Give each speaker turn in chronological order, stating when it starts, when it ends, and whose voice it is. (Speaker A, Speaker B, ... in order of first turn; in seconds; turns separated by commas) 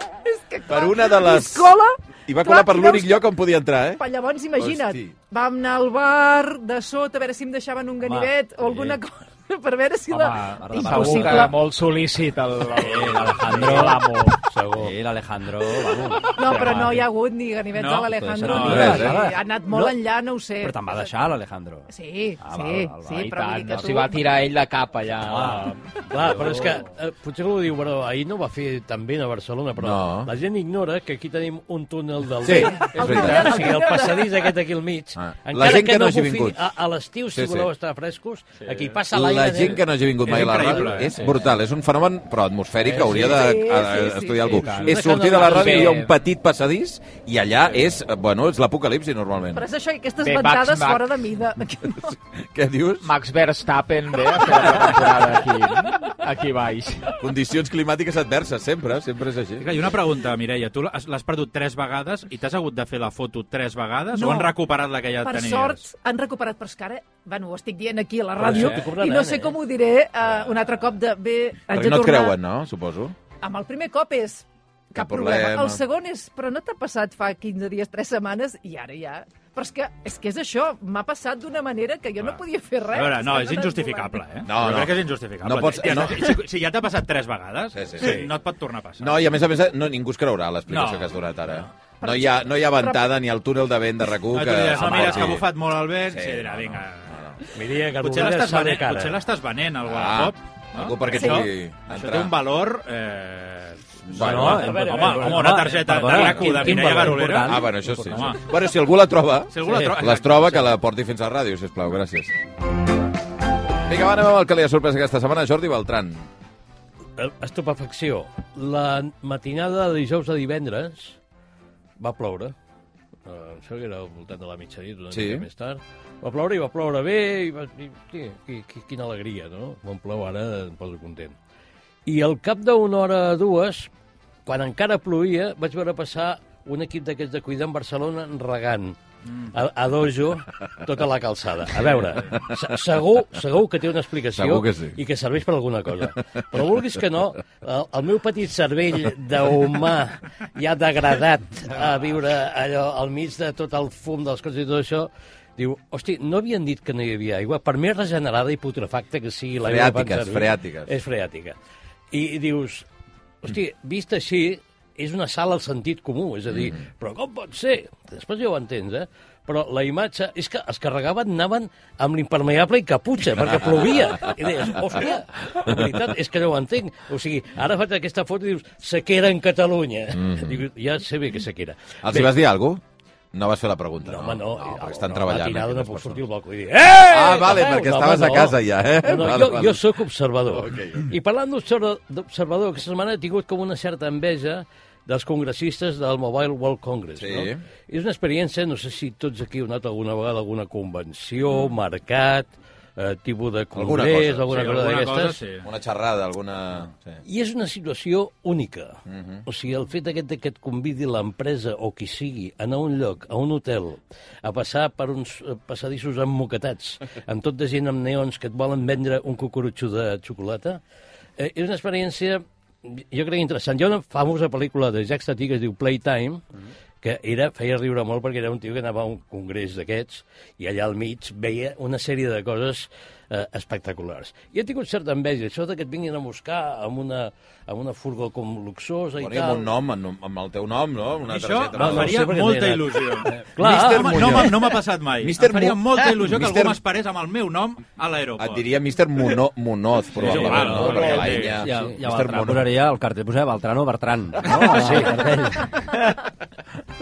Speaker A: 0.2-3.2, Speaker B: 0.7-1.7, Speaker B: 2.3-4.0, Speaker A: 3.9-11.6, Speaker B: 4.6-5.1, Speaker C: 8.0-9.0, Speaker D: 10.1-14.4, Speaker C: 10.6-11.5, Speaker C: 12.7-14.1, Speaker E: 14.5-14.9, Speaker C: 14.8-16.4, Speaker A: 16.3-21.1, Speaker D: 16.4-17.1, Speaker F: 17.7-19.1, Speaker C: 18.1-19.9, Speaker B: 18.6-19.2, Speaker C: 20.6-21.9, Speaker A: 21.9-24.3, Speaker C: 22.4-23.2, Speaker D: 23.1-25.8, Speaker C: 25.2-26.8, Speaker E: 26.1-41.1, Speaker B: 29.8-30.3, Speaker B: 32.4-33.6, Speaker A: 32.5-34.5, Speaker B: 35.1-36.6, Speaker B: 37.3-37.7, Speaker B: 39.1-49.6, Speaker F: 40.2-41.4, Speaker E: 42.9-43.3, Speaker A: 43.1-44.7, Speaker D: 44.7-46.1, Speaker E: 44.8-46.0, Speaker A: 49.5-52.1, Speaker D: 50.2-51.1, Speaker B: 52.0-53.1, Speaker D: 53.0-57.1, Speaker B: 57.2-59.8, Speaker F: 59.6-65.8, Speaker A: 64.1-64.5, Speaker A: 65.2-72.4, Speaker E: 68.4-69.6, Speaker C: 68.5-68.8, Speaker B: 71.7-73.1, Speaker A: 73.4-84.2, Speaker B: 74.9-75.8, Speaker F: 82.2-89.2, Speaker B: 84.4-86.4, Speaker B: 87.7-88.3, Speaker B: 89.0-95.5, Speaker F: 90.7-91.7, Speaker A: 92.0-93.1, Speaker F: 94.3-97.1, Speaker B: 96.0-97.4, Speaker E: 97.5-99.2, Speaker F: 98.0-108.4, Speaker B: 99.8-102.3, Speaker A: 101.1-101.5, Speaker B: 104.1-104.7, Speaker C: 104.1-108.3, Speaker E: 104.2-107.3, Speaker B: 107.4-112.3, Speaker F: 109.5-110.7, Speaker E: 109.7-109.9, Speaker B: 113.8-116.2, Speaker E: 117.2-121.2, Speaker E: 122.0-122.5, Speaker E: 123.2-131.3, Speaker B: 125.1-125.5, Speaker E: 132.1-133.9, Speaker E: 134.4-161.6, Speaker B: 142.3-142.6, Speaker B: 144.3-145.0, Speaker B: 159.6-160.9, Speaker E: 162.1-162.8, Speaker E: 163.4-182.4, Speaker B: 166.5-166.8, Speaker B: 173.4-174.3, Speaker B: 180.1-180.6, Speaker B: 182.0-182.8, Speaker B: 183.3-186.2, Speaker E: 184.0-205.4, Speaker B: 186.9-189.9, Speaker B: 190.4-191.1, Speaker B: 197.2-197.6, Speaker B: 203.7-204.7, Speaker F: 204.5-205.7, Speaker B: 205.6-207.2, Speaker E: 207.2-220.8, Speaker B: 209.1-209.4, Speaker E: 221.4-226.4, Speaker E: 227.0-239.7, Speaker B: 239.2-242.2, Speaker F: 241.2-248.7, Speaker E: 241.7-244.5, Speaker B: 243.6-246.8, Speaker B: 248.4-252.8, Speaker F: 250.2-251.6, Speaker E: 250.3-251.9, Speaker C: 250.4-255.9, Speaker E: 254.7-255.1